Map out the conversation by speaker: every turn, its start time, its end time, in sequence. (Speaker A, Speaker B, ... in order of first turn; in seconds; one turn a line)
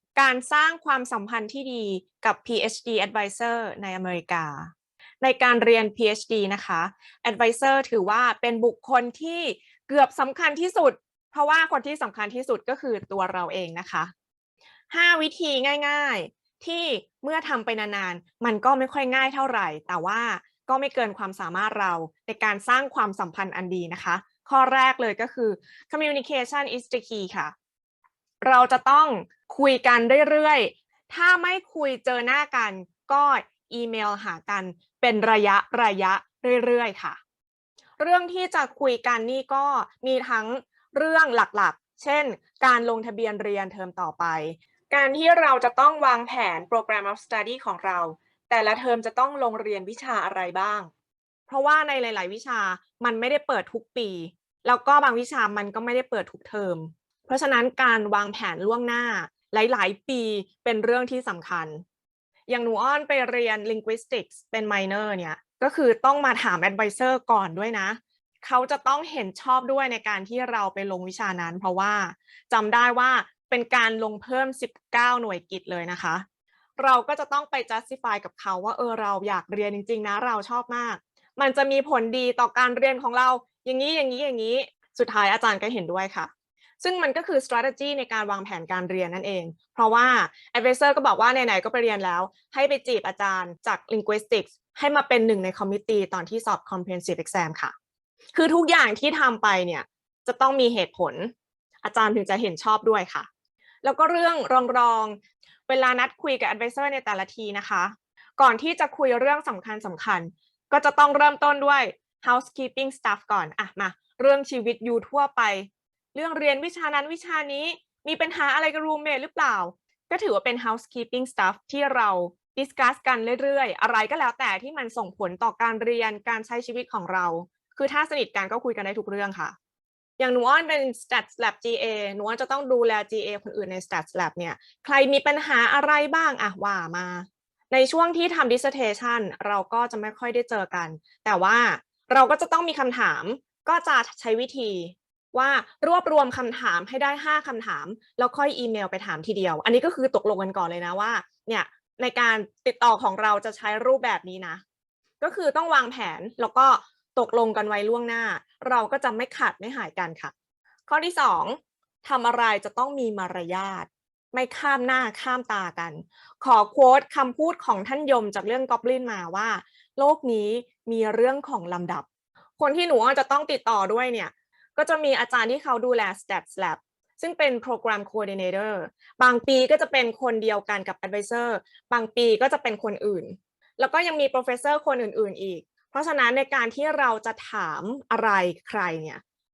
Speaker A: 0.2-14.1
Speaker A: 14.9-27.5
Speaker A: 28.4-37.2
Speaker A: 38.0-50.9
Speaker A: 51.5-61.8
Speaker A: 62.5-76.2
Speaker A: 76.8-86.3
Speaker A: 86.8-97.7
Speaker A: 98.3-103.3
Speaker A: 103.8-129.6
Speaker A: 130.2-154.6
Speaker A: 155.2-160.3
Speaker A: 160.9-172.1
Speaker A: 172.6-189.2